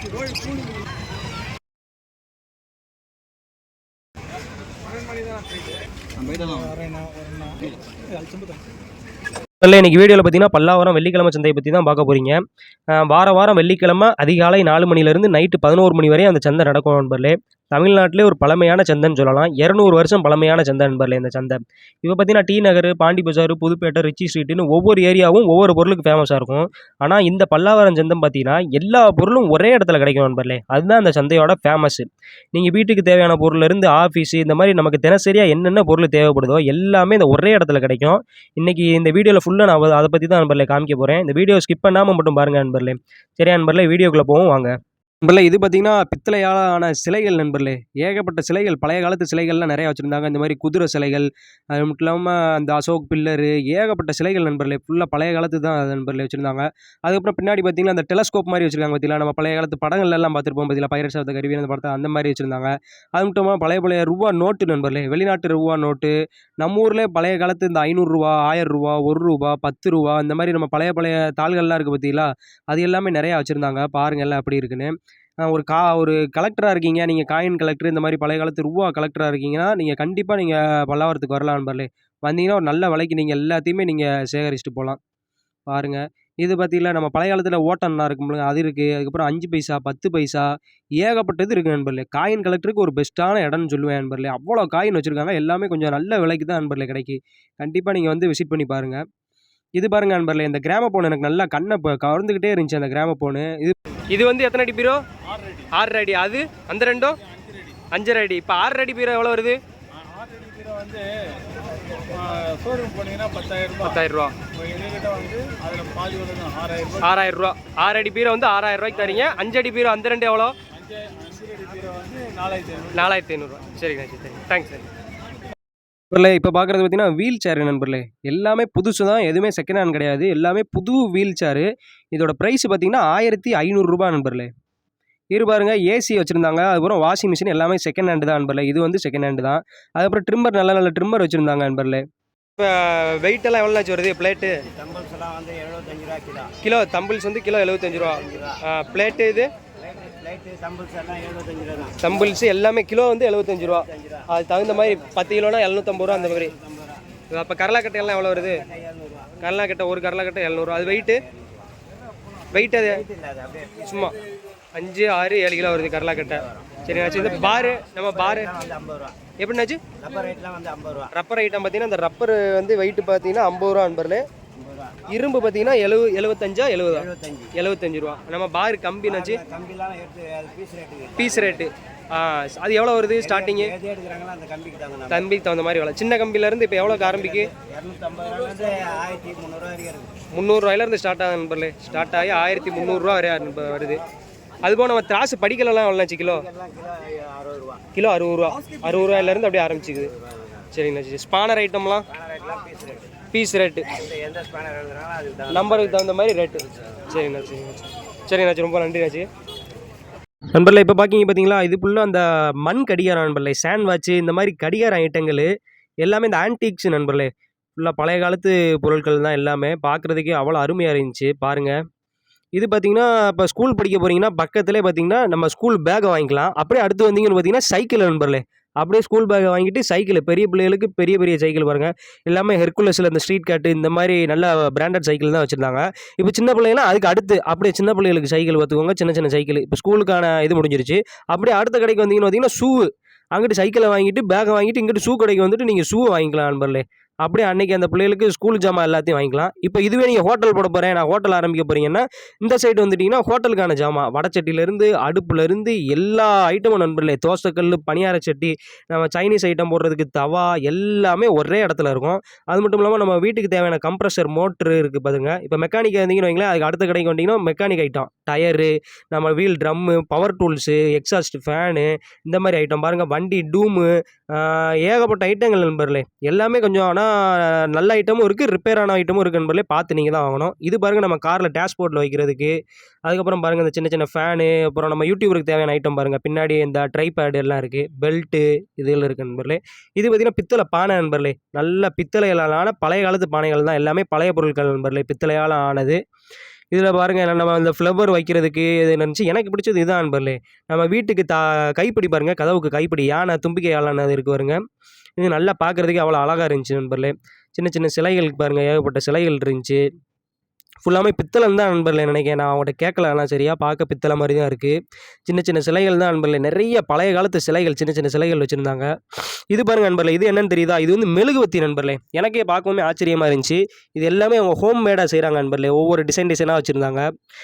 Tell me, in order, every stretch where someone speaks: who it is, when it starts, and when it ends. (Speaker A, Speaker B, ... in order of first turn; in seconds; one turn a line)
Speaker A: 6.6-7.6
Speaker A: 8.2-8.5
Speaker B: 9.6-85.0
Speaker B: 85.7-99.0
Speaker B: 99.8-105.0
Speaker A: 105.3-105.7
Speaker B: 105.7-107.2
Speaker B: 107.9-109.6
Speaker A: 109.9-117.1
Speaker B: 113.8-114.4
Speaker B: 117.0-120.5
Speaker A: 120.7-123.1
Speaker B: 122.9-124.9
Speaker B: 126.1-134.5
Speaker B: 135.3-142.0
Speaker B: 142.6-144.7
Speaker C: 144.8-146.5
Speaker B: 146.6-149.5
Speaker C: 149.9-152.0
Speaker B: 152.0-156.6
Speaker B: 157.3-158.7
Speaker C: 158.8-159.3
Speaker B: 159.4-161.2
Speaker B: 162.5-163.1
Speaker C: 163.1-163.8
Speaker B: 163.8-164.2
Speaker B: 164.7-168.6
Speaker C: 168.5-169.2
Speaker B: 169.4-169.8
Speaker C: 170.0-171.1
Speaker B: 171.1-174.2
Speaker B: 175.1-179.4
Speaker C: 177.1-177.5
Speaker C: 179.4-181.2
Speaker B: 181.2-183.8
Speaker C: 183.4-185.1
Speaker B: 185.1-187.5
Speaker C: 187.4-190.1
Speaker B: 190.3-194.0
Speaker B: 194.6-196.5
Speaker C: 196.5-197.8
Speaker B: 197.9-200.1
Speaker B: 200.7-202.1
Speaker C: 202.3-203.1
Speaker B: 203.3-203.9
Speaker C: 204.2-205.5
Speaker B: 205.5-209.3
Speaker B: 210.5-215.5
Speaker B: 216.0-221.8
Speaker B: 222.6-296.0
Speaker B: 296.7-304.6
Speaker B: 305.2-309.8
Speaker B: 310.8-318.9
Speaker B: 319.5-327.1